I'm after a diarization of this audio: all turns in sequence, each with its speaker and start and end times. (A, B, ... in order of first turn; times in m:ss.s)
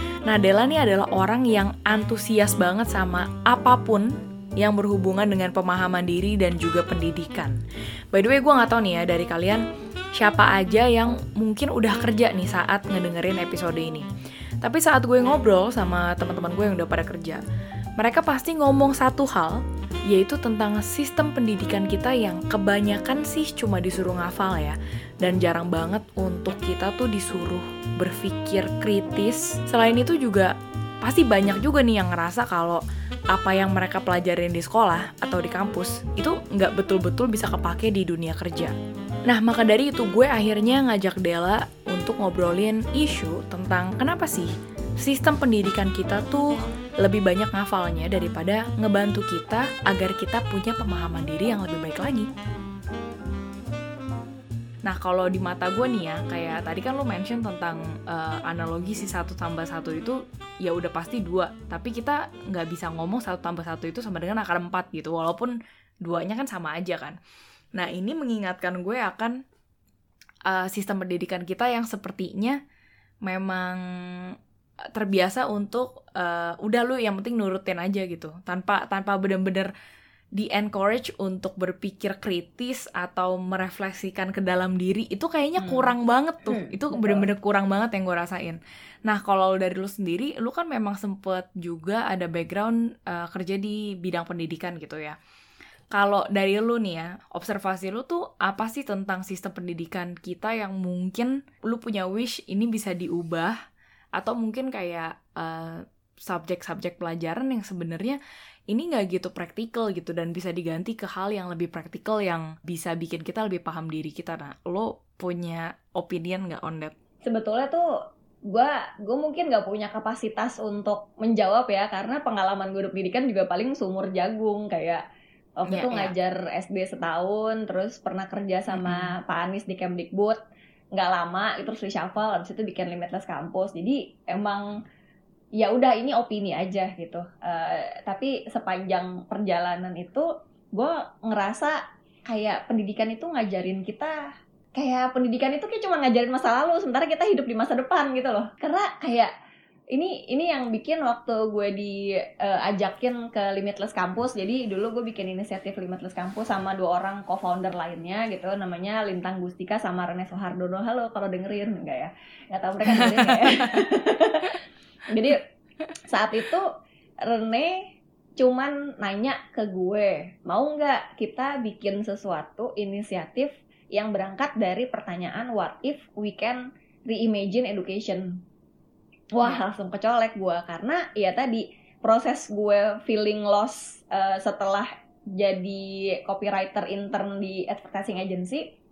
0:00.3-0:04.1 A
0:04.6-0:07.6 A
0:08.1-0:09.6 A
0:10.2-0:14.0 A
0:14.6-0:17.4 A
0:18.0-0:38.7 A
0:39.3-0:52.3 A
0:54.8-1:07.2 A
1:07.7-1:09.3 A
1:10.5-1:12.6 A
1:13.2-1:14.3 A
1:14.9-1:19.7 A
1:20.4-1:35.1 A
1:25.6-1:25.9 B
1:26.5-1:27.2 B
1:35.9-1:43.6 A
1:44.2-1:48.2 A
1:48.7-1:56.9 A
1:57.2-1:57.8 B
1:58.5-2:05.0 B
2:05.6-2:10.4 B
2:05.7-2:06.1 A
2:08.7-2:09.1 A
2:10.9-2:14.7 B
2:15.6-2:21.8 B
2:22.3-2:24.1 B
2:24.8-2:29.3 B
2:29.9-2:44.6 B
2:42.8-2:43.8 A
2:45.1-2:45.4 B
2:46.1-2:46.6 B
2:47.2-2:58.4 B
2:59.3-3:08.6 B